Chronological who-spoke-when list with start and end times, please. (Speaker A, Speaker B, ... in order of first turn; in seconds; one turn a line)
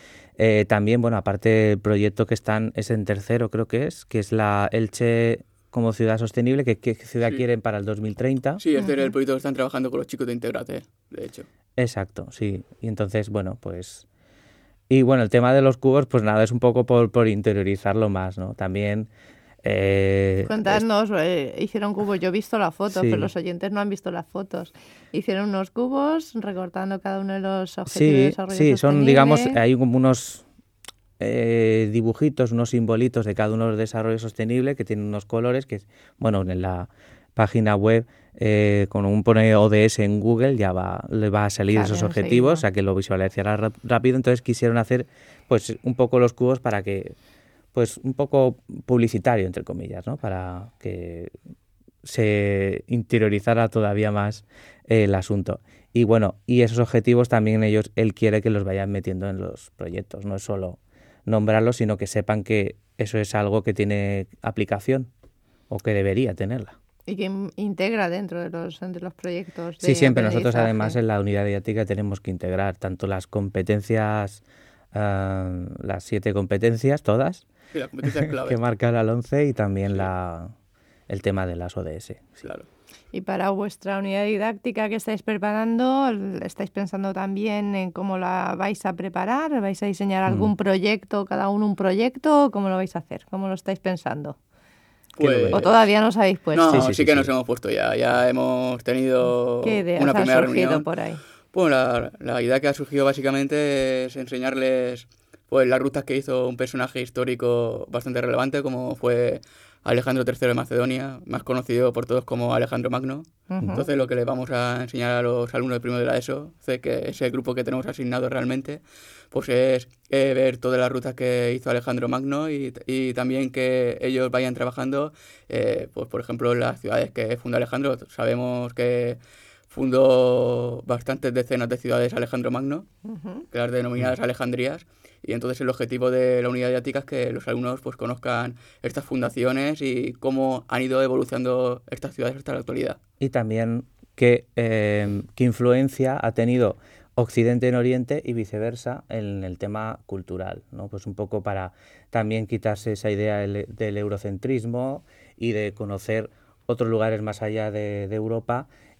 Speaker A: 0.4-8.6
Speaker B: 8.6-11.5
Speaker C: 8.8-9.1
Speaker A: 11.8-14.0
Speaker A: 14.9-19.1
Speaker A: 19.6-20.8
Speaker C: 20.4-29.6
Speaker A: 22.9-23.3
Speaker A: 27.9-30.4
Speaker A: 31.2-47.1
Speaker C: 41.7-42.6
Speaker A: 47.7-51.3
Speaker A: 52.0-65.1
Speaker A: 65.7-66.8
Speaker C: 67.1-71.0
Speaker A: 69.8-74.4
Speaker A: 74.9-77.4
Speaker B: 77.7-78.6
Speaker A: 78.4-80.5
Speaker A: 81.1-82.4
Speaker C: 83.1-94.3
Speaker B: 95.2-95.7
Speaker A: 95.2-95.6
Speaker C: 95.5-96.9
Speaker B: 96.5-100.9
Speaker A: 96.7-97.3
Speaker C: 99.6-101.2
Speaker B: 101.5-129.2
Speaker C: 113.5-113.9
Speaker B: 129.7-132.9
Speaker C: 133.0-133.4
Speaker B: 133.5-143.0
Speaker A: 143.2-158.7